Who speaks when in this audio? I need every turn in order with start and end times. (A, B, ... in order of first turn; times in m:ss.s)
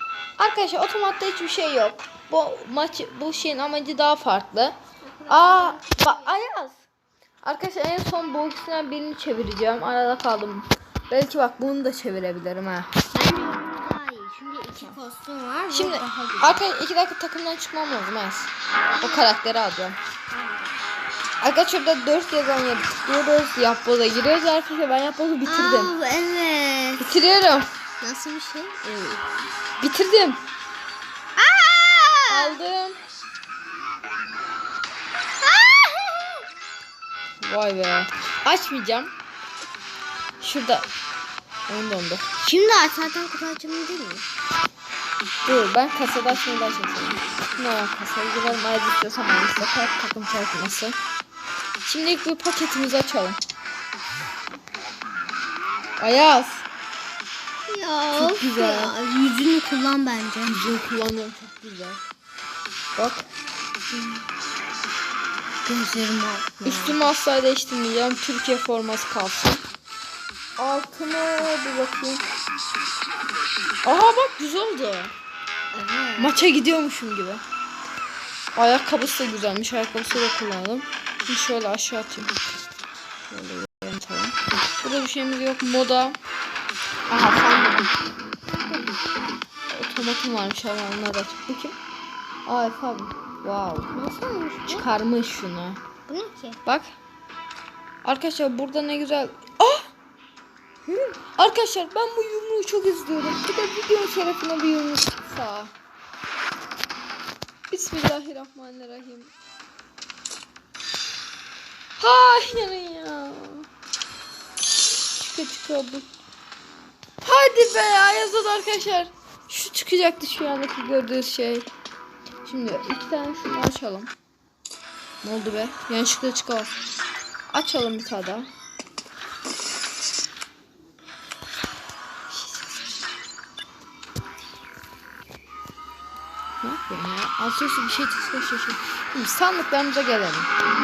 0:00.4-0:04.8 A
0:05.0-0:06.3 B
0:05.3-0:06.8 A
0:07.4-0:12.9 A
0:13.1-0:16.6 B
0:15.7-0:20.0 A
0:19.0-0:19.3 B
0:20.3-0:20.8 B
0:21.4-0:25.9 A
0:25.4-0:27.0 B
0:27.0-0:27.7 A
0:28.0-0:29.2 B
0:29.8-0:30.4 A
0:31.4-0:32.6 B
0:32.3-0:33.0 A
0:35.4-0:36.5 B
0:37.4-0:39.1 A
0:40.4-0:40.9 A
0:41.7-0:42.2 A
0:42.4-0:44.2 B
0:45.4-0:51.0 A
0:51.8-0:53.4 A
0:56.0-0:56.6 A
0:57.7-1:00.6 B
0:58.2-0:59.0 A
1:00.5-1:02.0 A
1:03.0-1:03.2 A
1:05.6-1:07.1 B
1:06.6-1:09.6 A
1:10.6-1:12.2 A
1:13.8-1:15.1 A
1:15.7-1:16.4 B
1:16.2-1:17.4 A
1:18.6-1:22.3 A
1:23.3-1:26.2 A
1:27.1-1:27.8 A
1:29.7-1:31.8 A
1:32.4-1:33.9 A
1:33.9-1:34.8 B
1:34.7-1:35.8 A
1:36.1-1:36.6 B
1:38.0-1:39.9 A
1:40.9-1:41.2 B
1:41.4-1:45.7 A
1:47.7-1:49.3 A
1:52.0-1:53.6 A
1:55.2-1:56.0 A
1:57.2-2:01.7 A
2:02.4-2:04.1 A
2:05.2-2:06.7 A
2:07.5-2:08.5 A
2:12.3-2:12.7 A
2:16.6-2:20.5 A